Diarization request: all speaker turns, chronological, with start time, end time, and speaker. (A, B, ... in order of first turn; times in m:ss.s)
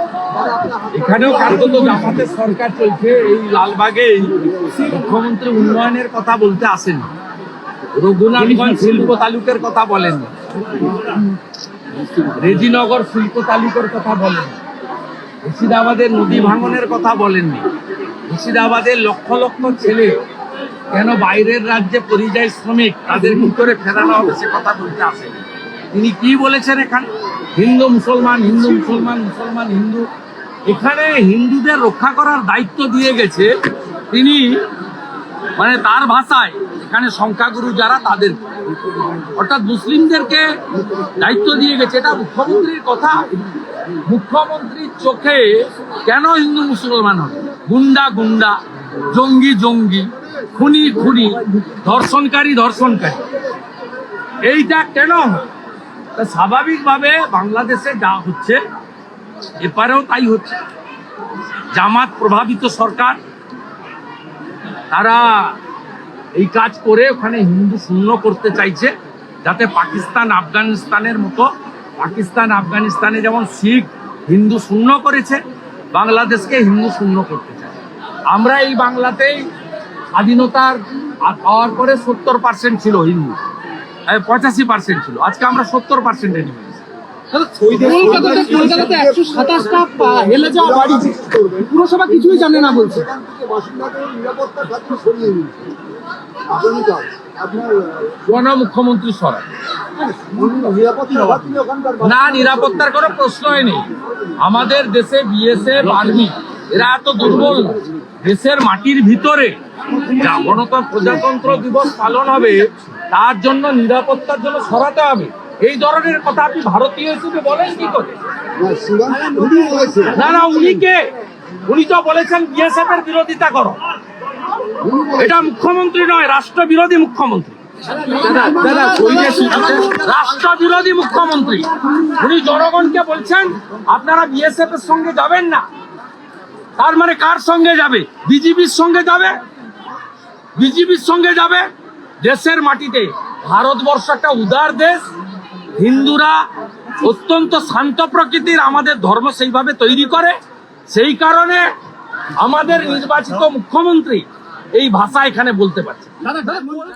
0:00.4-0:00.8 A
0:00.9-0:07.1 B
0:07.9-0:10.9 B
0:12.1-0:14.6 B
0:15.4-0:17.7 B
0:18.3-0:20.2 B
0:20.9-0:25.4 B
0:25.9-0:30.1 B
0:30.7-0:33.5 B
0:34.1-0:34.6 B
0:35.6-0:38.4 B
0:39.1-0:40.6 B
0:41.2-0:43.3 B
0:44.0-0:53.2 B
0:54.4-0:55.4 B
0:56.2-0:58.6 B
0:59.6-1:00.6 B
1:01.7-1:03.2 B
1:04.9-1:05.6 B
1:06.4-1:08.9 B
1:09.4-1:15.4 B
1:15.9-1:17.8 B
1:18.3-1:19.5 B
1:20.1-1:23.4 B
1:24.1-1:26.8 B
1:27.3-1:33.1 C
1:27.6-1:31.7 A
1:32.2-1:35.7 A
1:36.4-1:38.1 A
1:38.2-1:39.4 B
1:40.1-1:42.5 A
1:42.0-1:43.9 B
1:44.4-1:58.2 B
1:58.6-2:00.2 A
1:59.3-1:59.9 C
2:00.1-2:01.1 B
2:01.6-2:03.8 B
2:05.0-2:15.7 B
2:08.1-2:09.4 C
2:16.8-2:19.4 B
2:20.6-2:21.7 B
2:22.2-2:25.1 B
2:25.8-2:26.4 B
2:27.0-2:30.4 B
2:30.9-2:31.7 B
2:32.4-2:36.6 B